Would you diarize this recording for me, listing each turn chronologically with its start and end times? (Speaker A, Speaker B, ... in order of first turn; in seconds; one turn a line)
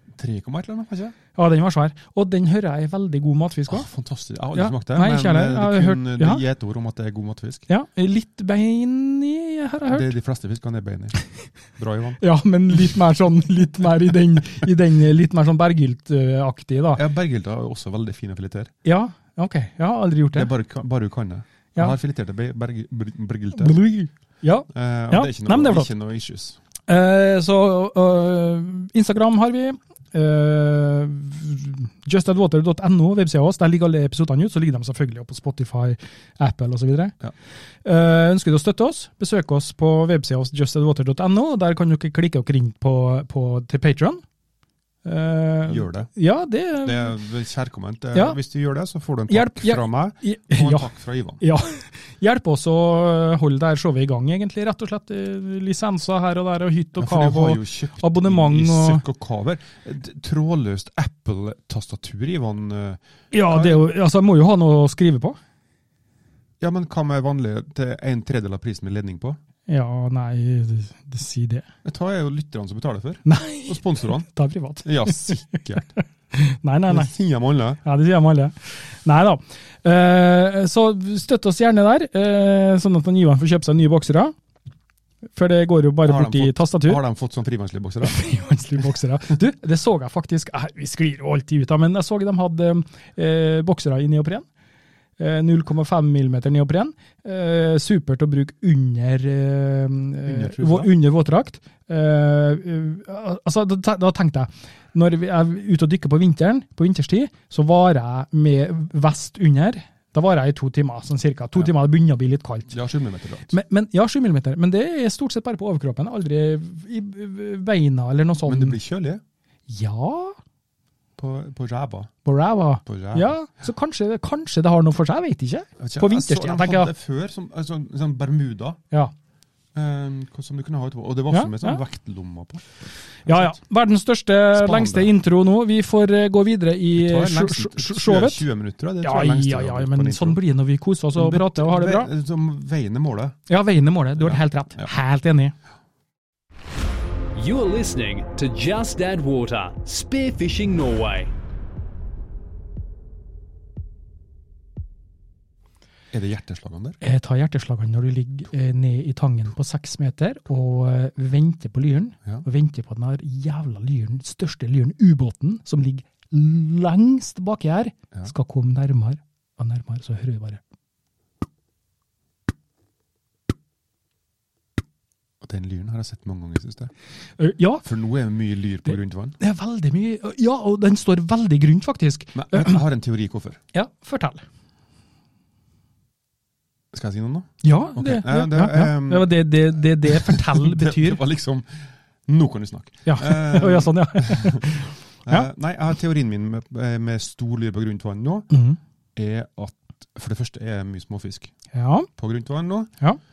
Speaker A: 0.1-1.2
Speaker B: 1.4-3.9
Speaker A: 3.7-7.7
Speaker B: 4.5-6.4
Speaker B: 7.7-10.1
Speaker A: 9.9-11.2
Speaker A: 11.8-12.2
Speaker B: 12.2-17.0
Speaker A: 16.9-18.7
Speaker B: 18.9-20.5
Speaker A: 20.3-23.8
Speaker B: 23.6-25.9
Speaker A: 24.7-26.6
Speaker B: 26.9-37.1
Speaker B: 37.8-44.2
Speaker B: 45.0-47.2
Speaker A: 45.7-46.1
Speaker A: 46.8-51.4
Speaker B: 49.3-50.9
Speaker B: 51.4-59.0
Speaker A: 57.0-63.9
Speaker B: 63.3-65.4
Speaker A: 66.6-69.4
Speaker B: 69.7-71.7
Speaker A: 71.8-74.3
Speaker B: 73.3-77.1
Speaker A: 74.8-75.9
Speaker A: 76.9-77.8
Speaker B: 77.8-84.3
Speaker B: 85.3-87.0
Speaker A: 86.0-88.2
Speaker B: 88.0-94.5
Speaker B: 95.2-112.8
Speaker A: 100.2-100.9
Speaker A: 112.7-113.5
Speaker B: 113.5-118.8
Speaker A: 118.5-119.2
Speaker B: 119.7-120.4
Speaker A: 121.2-122.1
Speaker B: 122.2-126.9
Speaker A: 122.9-123.3
Speaker A: 125.8-128.8
Speaker A: 129.7-133.6
Speaker B: 131.3-131.8
Speaker B: 133.3-138.5
Speaker A: 134.5-135.1
Speaker A: 137.0-140.4
Speaker B: 139.0-142.1
Speaker A: 141.2-143.4
Speaker B: 143.5-145.5
Speaker A: 144.2-144.9
Speaker C: 147.3-151.3
Speaker A: 156.1-157.0
Speaker B: 157.0-170.6
Speaker A: 175.4-176.9
Speaker B: 177.4-177.8
Speaker A: 177.8-179.4
Speaker B: 179.4-182.8
Speaker A: 182.3-183.6
Speaker B: 183.7-184.4
Speaker A: 186.9-189.4
Speaker B: 187.6-191.2
Speaker A: 190.1-198.5
Speaker B: 193.1-195.5
Speaker B: 198.5-198.8
Speaker A: 199.2-201.5
Speaker B: 201.7-202.1
Speaker A: 202.2-202.9